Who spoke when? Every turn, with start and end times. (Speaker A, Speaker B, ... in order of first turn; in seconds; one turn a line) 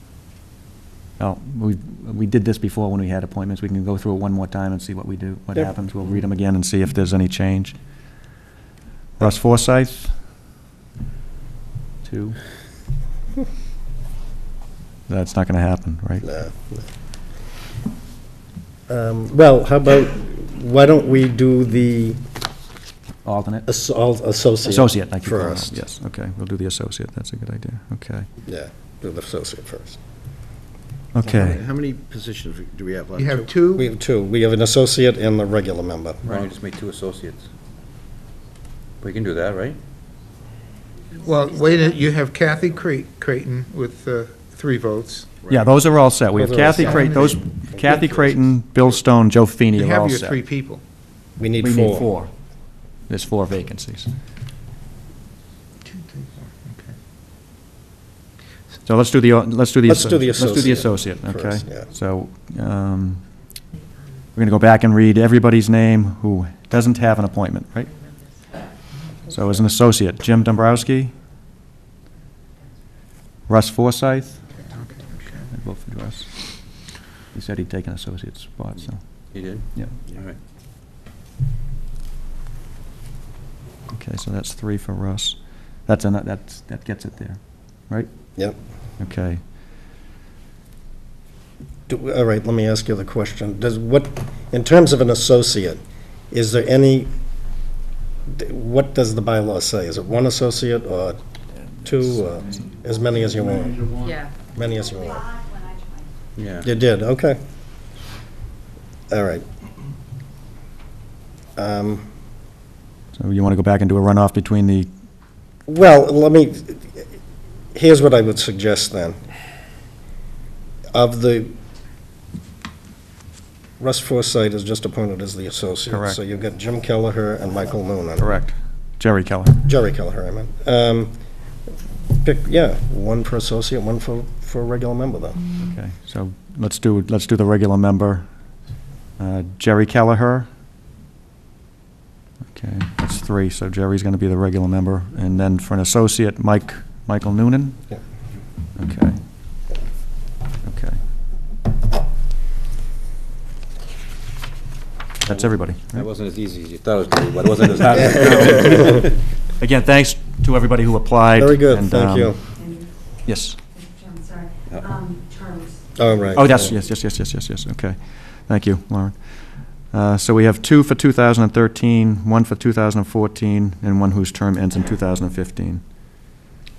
Speaker A: 1.2-7.8
Speaker A: 9.2-10.1
Speaker A: 12.0-12.4
Speaker A: 15.1-16.3
Speaker B: 16.2-16.8
Speaker B: 18.9-22.2
Speaker A: 23.2-23.7
Speaker B: 23.7-25.8
Speaker A: 24.6-28.3
Speaker B: 28.5-30.0
Speaker A: 31.1-31.6
Speaker C: 31.2-33.6
Speaker D: 33.1-33.9
Speaker B: 33.8-36.2
Speaker C: 36.2-37.5
Speaker C: 39.0-39.8
Speaker D: 41.2-45.3
Speaker C: 45.4-45.7
Speaker A: 45.5-50.4
Speaker B: 46.3-47.1
Speaker D: 46.8-47.4
Speaker B: 47.7-48.4
Speaker D: 49.7-50.8
Speaker B: 51.4-52.1
Speaker A: 51.6-52.3
Speaker A: 53.1-54.1
Speaker D: 55.8-56.9
Speaker A: 58.8-63.2
Speaker B: 59.9-61.9
Speaker A: 64.3-67.9
Speaker A: 69.3-71.1
Speaker A: 73.5-74.6
Speaker D: 74.7-75.5
Speaker A: 75.5-80.0
Speaker C: 79.0-80.4
Speaker A: 83.9-88.1
Speaker A: 89.0-89.4
Speaker B: 91.9-97.1
Speaker B: 98.3-101.2
Speaker A: 101.5-102.7
Speaker B: 101.8-103.9
Speaker B: 104.5-105.2
Speaker E: 104.5-106.1
Speaker C: 106.4-106.7
Speaker B: 106.6-107.4
Speaker B: 109.1-109.4
Speaker B: 111.6-112.1
Speaker A: 113.2-114.9
Speaker B: 115.7-117.1
Speaker B: 117.7-119.2
Speaker B: 120.9-121.6
Speaker B: 123.8-128.3
Speaker A: 125.9-126.2
Speaker A: 128.2-129.6
Speaker B: 129.7-131.2
Speaker B: 132.2-135.4
Speaker A: 135.6-138.3
Speaker A: 139.2-140.5
Speaker A: 142.5-147.8
Speaker A: 148.8-149.2
Speaker A: 150.6-151.0
Speaker A: 155.2-156.1
Speaker C: 155.3-159.1
Speaker B: 158.0-159.0
Speaker A: 158.0-162.6
Speaker B: 161.4-162.4
Speaker E: 162.6-163.1
Speaker A: 163.2-163.6
Speaker E: 163.7-166.1
Speaker B: 166.0-166.7
Speaker A: 166.3-175.8